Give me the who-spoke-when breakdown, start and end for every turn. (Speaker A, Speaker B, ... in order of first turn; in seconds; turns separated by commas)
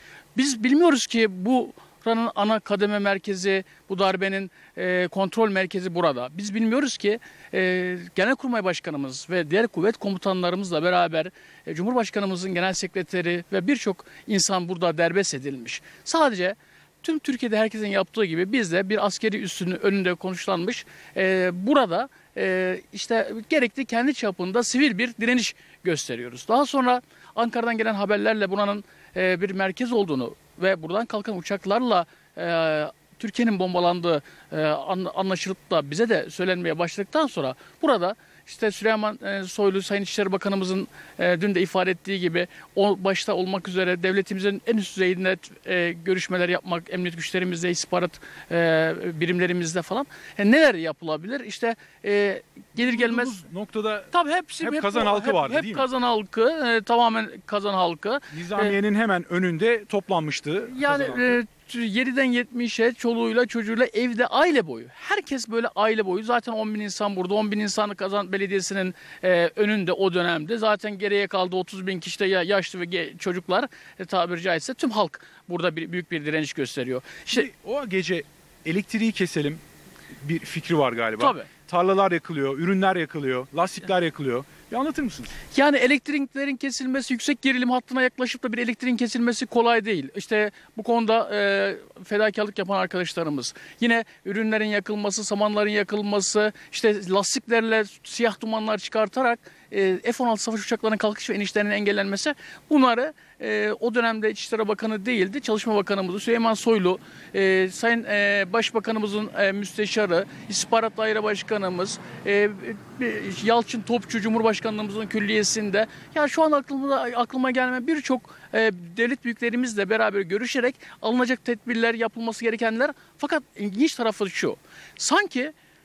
Speaker A: 0.3-53.4, Speaker B: 52.8-55.9, Speaker A: 54.1-58.8, Speaker B: 58.3-61.4, Speaker A: 60.7-77.5, Speaker B: 77.3-79.6, Speaker B: 80.2-85.3, Speaker A: 81.2-81.5, Speaker A: 85.5-125.5